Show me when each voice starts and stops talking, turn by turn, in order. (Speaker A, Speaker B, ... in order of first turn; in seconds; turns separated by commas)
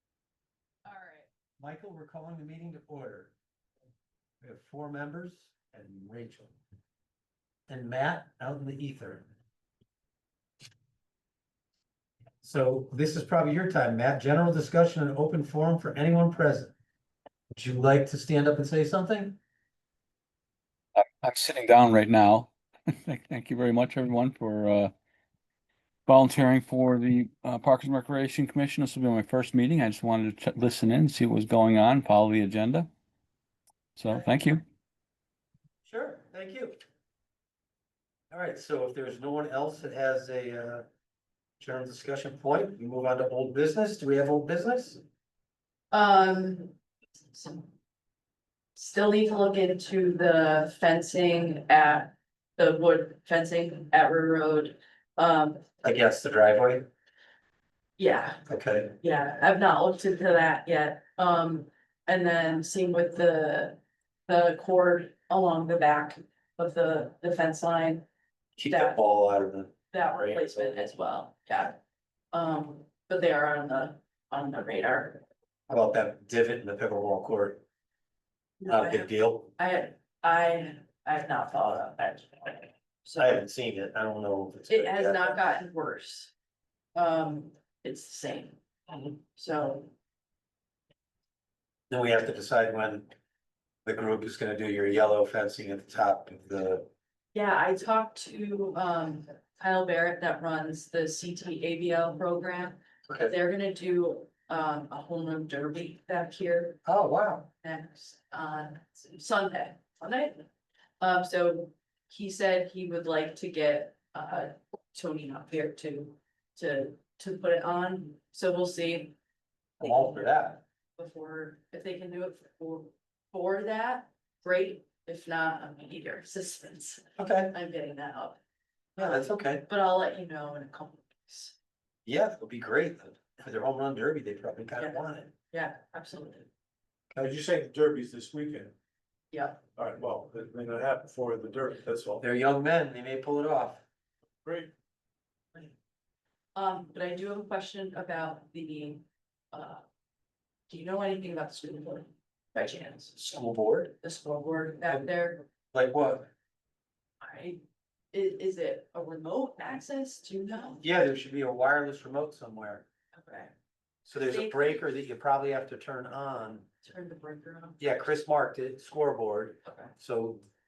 Speaker A: 0.8-1.3, Speaker B: 1.6-3.3, Speaker B: 4.4-6.5, Speaker B: 7.7-9.3, Speaker B: 12.4-16.7, Speaker B: 17.5-19.4, Speaker C: 20.9-24.9, Speaker C: 26.1-32.9, Speaker C: 34.0-34.6, Speaker B: 35.9-36.8, Speaker B: 38.3-40.8, Speaker B: 41.6-45.0, Speaker A: 45.9-46.8, Speaker A: 47.3-47.7, Speaker A: 48.7-55.6, Speaker B: 55.8-56.9, Speaker A: 58.0-58.4, Speaker B: 58.5-58.9, Speaker A: 59.0-68.1, Speaker B: 68.6-70.7, Speaker A: 68.7-69.0, Speaker A: 69.9-71.8, Speaker A: 72.3-75.2, Speaker B: 75.7-77.6, Speaker A: 78.6-83.4, Speaker B: 78.7-79.5, Speaker B: 83.2-85.4, Speaker A: 84.7-86.3, Speaker A: 86.9-88.6, Speaker A: 89.2-89.9, Speaker B: 91.9-93.1, Speaker B: 93.8-96.9, Speaker A: 97.3-106.8, Speaker B: 103.1-103.3, Speaker B: 106.8-107.5, Speaker A: 107.6-110.5, Speaker A: 111.0-119.2, Speaker B: 119.8-120.6, Speaker A: 119.8-128.4, Speaker B: 127.2-127.5, Speaker A: 128.9-131.5, Speaker B: 129.0-129.6, Speaker B: 132.1-135.3, Speaker A: 134.8-136.5, Speaker B: 137.1-137.4, Speaker D: 137.2-138.7, Speaker A: 139.3-139.6, Speaker D: 139.8-142.2, Speaker B: 142.2-143.8, Speaker D: 144.4-144.7, Speaker A: 146.5-149.8, Speaker A: 150.7-153.2, Speaker B: 153.2-153.9, Speaker A: 154.0-155.4, Speaker B: 155.7-156.3, Speaker A: 157.2-160.8, Speaker B: 160.8-162.8, Speaker A: 163.2-163.5, Speaker B: 164.0-166.7, Speaker A: 164.1-164.9, Speaker A: 166.8-167.8, Speaker B: 167.8-170.4, Speaker A: 169.6-169.9